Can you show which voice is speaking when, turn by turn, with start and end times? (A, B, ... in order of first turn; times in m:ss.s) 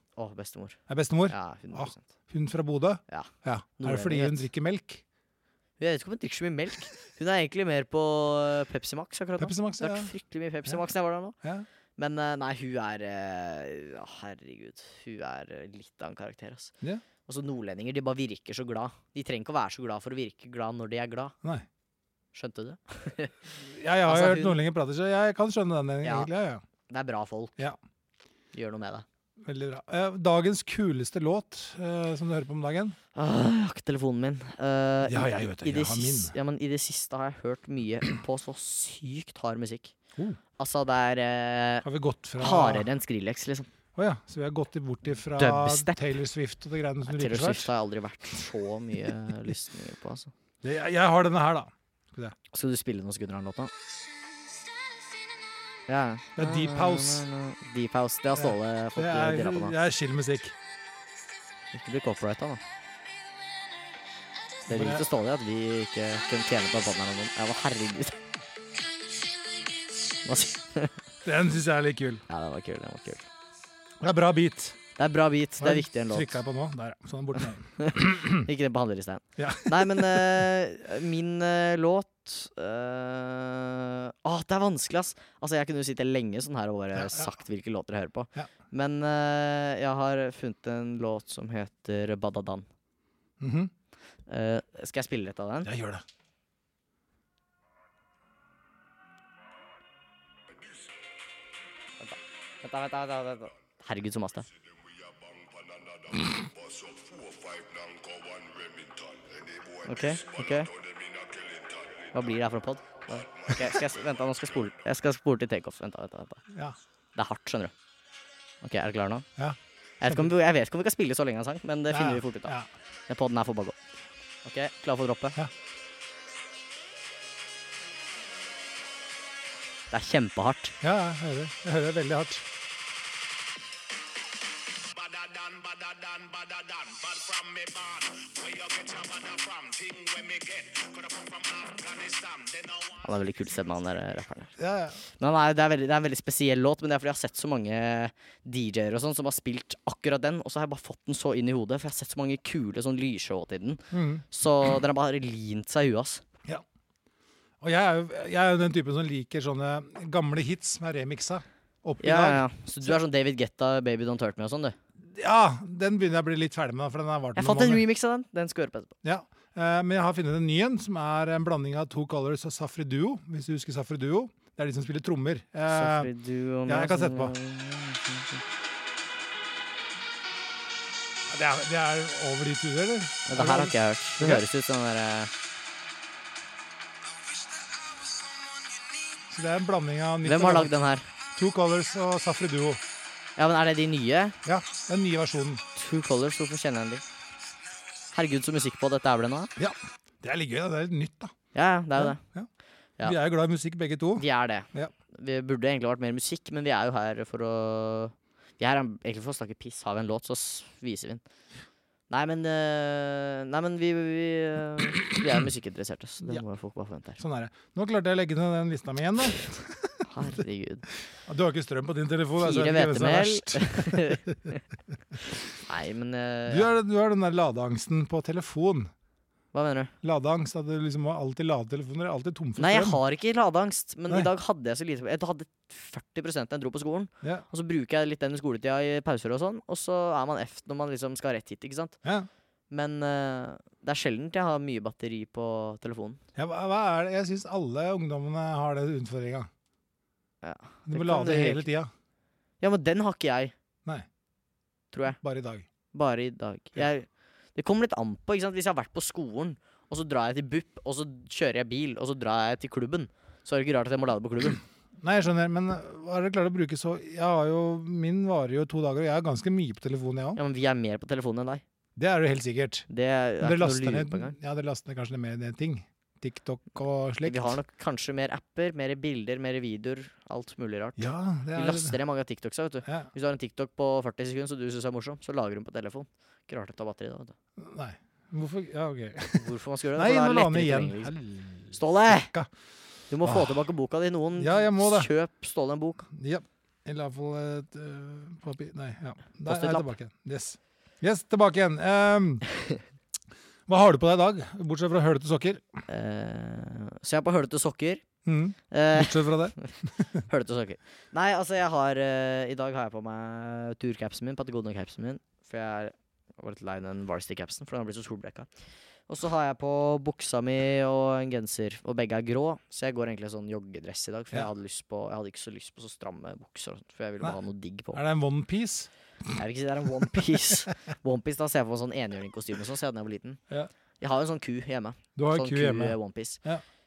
0:00.2-0:02.0 A
0:00.9-0:05.0 B
0:03.1-0:04.5 A
0:05.8-0:11.4 A
0:09.4-0:10.1 B
0:12.0-0:16.7 A
0:17.3-0:21.4 A
0:22.3-0:23.4 A
0:23.6-0:26.6 B
0:24.0-0:24.6 A
0:26.0-0:26.3 A
0:26.9-0:27.6 A
0:28.5-0:29.0 A
0:29.4-0:33.0 B
0:33.2-0:39.9 A
0:35.1-0:36.3 B
0:40.6-0:41.9 A
0:41.8-0:42.9 B
0:42.4-0:43.7 A
0:44.0-0:47.7 B
0:45.4-0:46.2 A
0:47.0-0:50.3 A
0:50.6-0:52.4 B
0:52.5-0:53.7 A
0:55.9-0:59.8 A
0:56.4-0:57.3 B
0:58.3-1:00.6 B
1:01.7-1:02.6 A
1:04.7-1:08.2 A
1:04.7-1:05.1 B
1:10.2-1:11.0 A
1:11.2-1:12.2 B
1:12.3-1:13.3 A
1:14.0-1:14.8 B
1:15.0-1:16.3 A
1:15.6-1:18.5 B
1:17.8-1:32.7 A
1:19.4-1:20.5 B
1:26.9-1:27.4 B
1:33.4-1:33.7 B
1:34.3-1:35.7 A
1:35.6-1:36.0 B
1:40.5-1:40.9 C
1:42.0-1:44.5 A
1:44.5-1:52.4 C
1:49.8-1:50.7 A
1:52.1-1:56.4 A
1:53.4-1:54.0 C
1:56.5-1:56.8 B
1:57.2-1:57.7 A
1:58.6-1:59.3 A
1:59.4-2:00.3 B
2:00.0-2:02.5 A
2:01.9-2:02.7 B
2:03.1-2:03.8 A
2:04.4-2:05.4 A
2:09.9-2:10.8 A
2:10.8-2:12.4 B
2:14.8-2:23.2 C
2:23.0-2:24.5 A
2:24.6-2:25.0 B
2:25.2-2:36.2 A
2:33.9-2:34.2 B
2:37.6-2:42.9 B
2:42.0-2:44.8 A
2:45.0-2:47.8 B
2:47.4-2:48.9 A
2:49.0-2:56.1 B
2:55.7-2:58.4 A
2:56.7-2:57.4 B
3:01.3-3:04.5 B
3:03.3-3:05.3 A
3:09.3-3:10.7 B
3:10.2-3:11.1 A
3:11.4-3:12.8 B
3:13.4-3:14.4 A
3:14.4-3:15.6 B
3:15.8-3:17.0 A
3:18.1-3:19.5 A
3:19.6-3:21.3 B
3:21.5-3:22.2 A
3:22.0-3:22.5 B
3:23.0-3:24.9 B
3:24.2-3:31.2 A
3:32.1-3:37.2 A
3:37.2-3:40.1 B
3:40.1-3:40.9 A
3:41.2-3:44.4 B
3:42.4-3:44.6 A
3:45.5-3:46.7 A
3:46.5-3:48.9 B
3:49.5-3:49.9 A
3:50.0-3:53.0 B
3:52.6-4:02.0 A
4:02.7-4:06.2 A
4:06.4-4:09.5 B
4:10.4-4:11.7 A
4:10.9-4:11.9 B
4:12.6-4:13.5 A
4:14.9-4:15.2 A
4:15.2-4:15.7 B
4:15.9-4:24.6 A
4:25.0-4:30.4 B
4:30.4-4:31.6 A
4:32.0-4:32.9 B
4:32.9-4:34.4 A
4:33.4-4:37.6 B
4:37.2-4:47.3 A
4:41.0-4:42.0 B
4:47.6-4:52.5 B
4:49.4-4:51.1 A
4:51.7-4:52.3 A
4:53.1-4:56.1 A
4:53.2-4:53.7 B
4:54.4-4:55.1 B
4:56.1-5:02.4 B
4:59.5-4:59.9 A
5:03.7-5:05.8 B
5:05.9-5:08.0 A
5:08.2-5:10.2 B
5:08.7-5:09.8 A
5:10.3-5:18.5 A
5:19.1-5:28.0 A
5:27.9-5:28.9 B
5:29.4-5:33.4 A
5:34.0-5:36.4 A
5:35.2-5:36.6 B